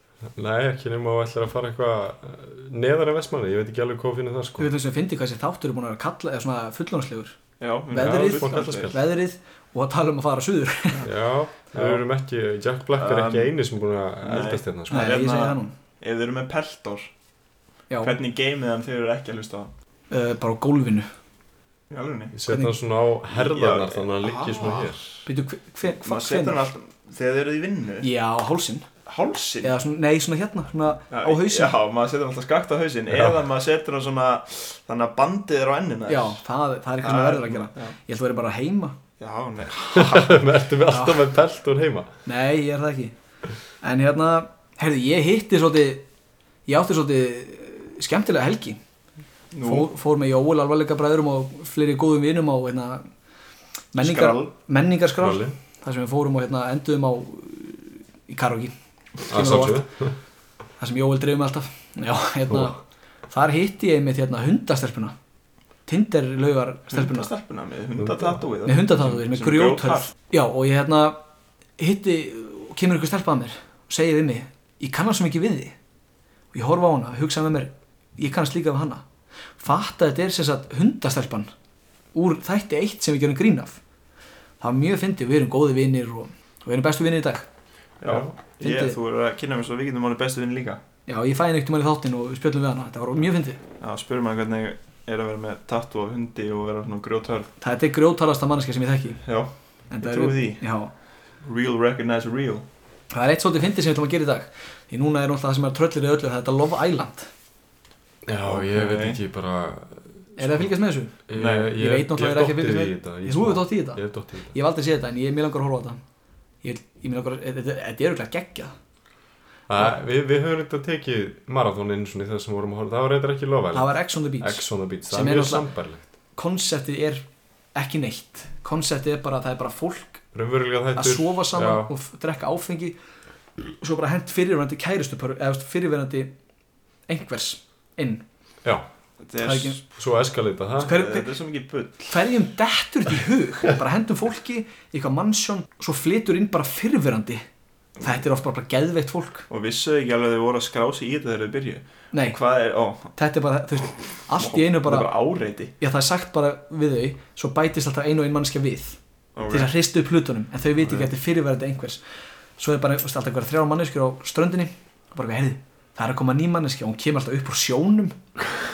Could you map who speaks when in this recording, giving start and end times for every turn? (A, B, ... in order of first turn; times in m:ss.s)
0:00.4-0:04.7 A
0:04.6-0:07.4 B
0:07.6-0:08.9 C
0:07.9-0:11.0 B
0:08.0-0:09.0 A
0:11.0-0:15.0 A
0:11.7-0:12.0 C
0:13.0-0:13.5 C
0:14.2-0:17.1 C
0:14.9-0:15.7 B
0:17.9-0:18.2 B
0:18.0-0:19.7 C
0:20.1-0:21.1 B
0:21.9-0:22.4 C
0:22.3-0:25.0 A
0:22.5-0:22.7 B
0:23.3-0:25.2 C
0:25.2-0:26.7 B
0:25.9-0:28.1 C
0:28.0-0:28.9 B
0:29.1-0:29.7 C
0:29.6-0:31.8 B
0:31.1-0:36.4 C
0:36.1-0:39.0 B
0:37.0-0:38.0 C
0:39.2-0:40.4 C
0:39.9-0:42.1 A
0:40.9-0:41.2 B
0:42.2-0:43.1 B
0:43.8-0:46.1 B
0:46.7-0:48.8 B
0:49.5-0:49.9 C
0:49.6-0:53.1 B
0:53.9-0:58.7 B
0:54.0-0:54.5 C
0:55.2-0:55.6 A
0:59.2-0:59.9 B
0:59.3-1:00.2 A
1:00.8-1:05.1 B
1:05.9-1:07.3 B
1:06.9-1:10.1 C
1:08.0-1:08.4 A
1:08.6-1:11.2 B
1:11.8-1:15.8 B
1:16.5-1:19.0 B
1:19.6-1:21.5 B
1:22.1-1:23.8 B
1:24.6-1:27.5 B
1:28.0-1:30.8 C
1:28.2-1:29.0 B
1:31.1-1:33.6 B
1:33.8-1:37.5 C
1:37.6-1:39.2 B
1:39.2-1:40.6 C
1:39.9-1:40.9 B
1:41.4-1:42.7 C
1:43.1-1:47.3 B
1:48.2-1:50.7 A
1:48.5-1:49.2 C
1:50.4-1:56.0 B
1:51.3-1:54.5 A
1:51.4-1:51.8 C
1:56.6-1:58.8 B
1:59.7-2:06.0 A
2:03.7-2:05.7 B
2:06.4-2:10.2 B
2:10.3-2:11.9 A
2:11.0-2:13.0 B
2:13.8-2:16.3 B
2:17.1-2:18.2 B
2:19.2-2:19.8 C
2:19.4-2:19.8 B
2:20.0-2:21.0 A
2:20.8-2:21.3 B
2:20.8-2:22.1 C
2:22.1-2:27.4 B
2:28.0-2:29.5 B
2:29.5-2:33.1 C
2:32.1-2:32.4 B
2:33.1-2:35.1 B
2:34.2-2:35.7 C
2:35.8-2:42.0 B
2:39.4-2:39.7 C
2:42.6-2:48.2 B